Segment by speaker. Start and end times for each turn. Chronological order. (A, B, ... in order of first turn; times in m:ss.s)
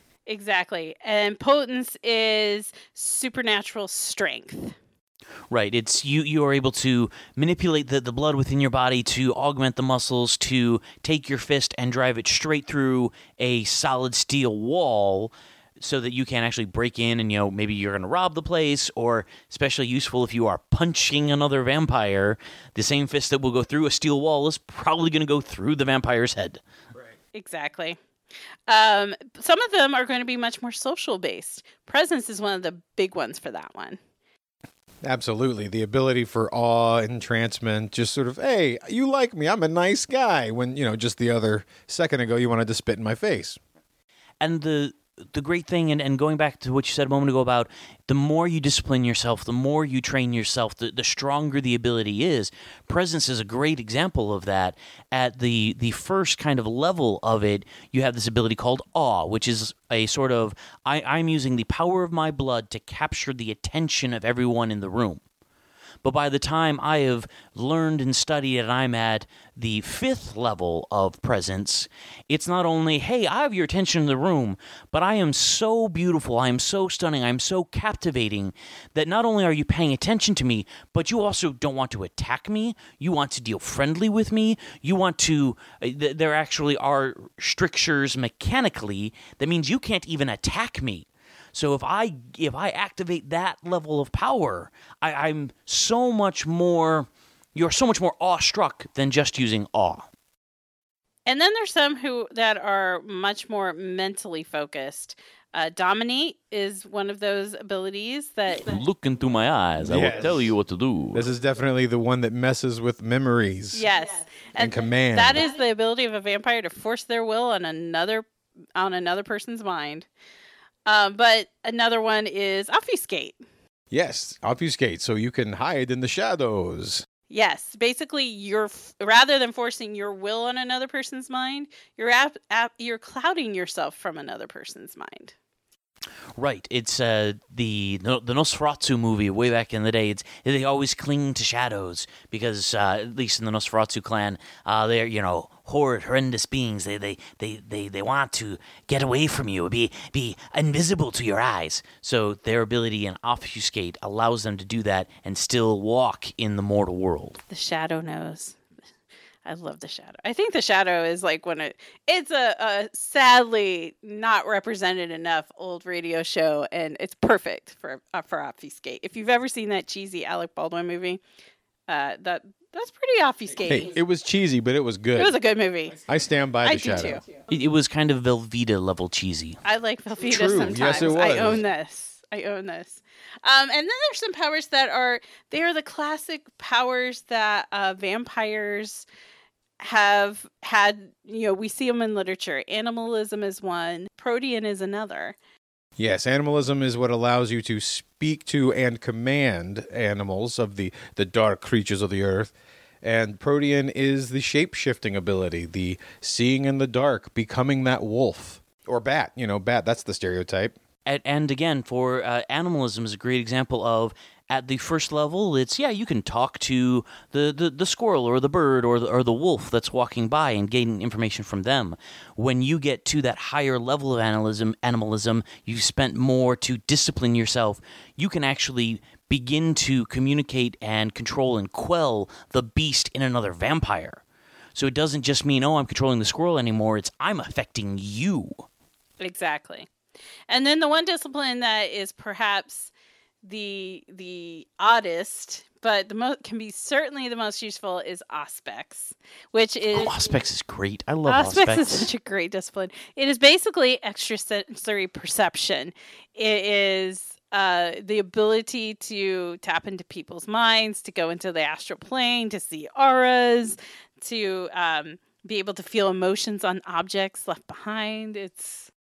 0:00.3-0:04.8 A
0:05.5-0:26.6 B
0:27.3-0:28.0 A
0:28.7-0:34.0 A
0:35.0-0:43.6 C
0:44.4-1:05.2 B
1:06.0-1:40.1 B
1:41.3-1:48.8 A
1:48.6-1:51.3 B
1:49.8-1:50.6 C
1:51.1-1:53.8 C
1:53.7-2:00.1 A
1:54.6-1:55.4 C
2:00.9-2:03.4 A
2:03.9-2:07.0 C
2:07.3-2:15.4 A
2:16.4-2:37.4 B
2:37.5-2:38.6 A
2:39.4-2:51.2 A
2:51.9-2:54.0 A
2:53.7-2:55.4 C
2:55.2-2:56.0 A
2:56.0-2:57.2 C
2:56.6-2:57.2 A
2:57.5-2:59.6 B
2:59.6-3:09.1 A
3:00.3-3:01.6 C
3:09.8-3:15.4 A
3:16.0-3:30.8 C
3:31.1-3:54.2 B
3:54.8-3:58.7 B
3:59.2-3:59.9 A
4:00.5-4:02.9 A
4:03.4-4:10.3 A
4:09.9-4:12.1 B
4:11.3-4:28.9 A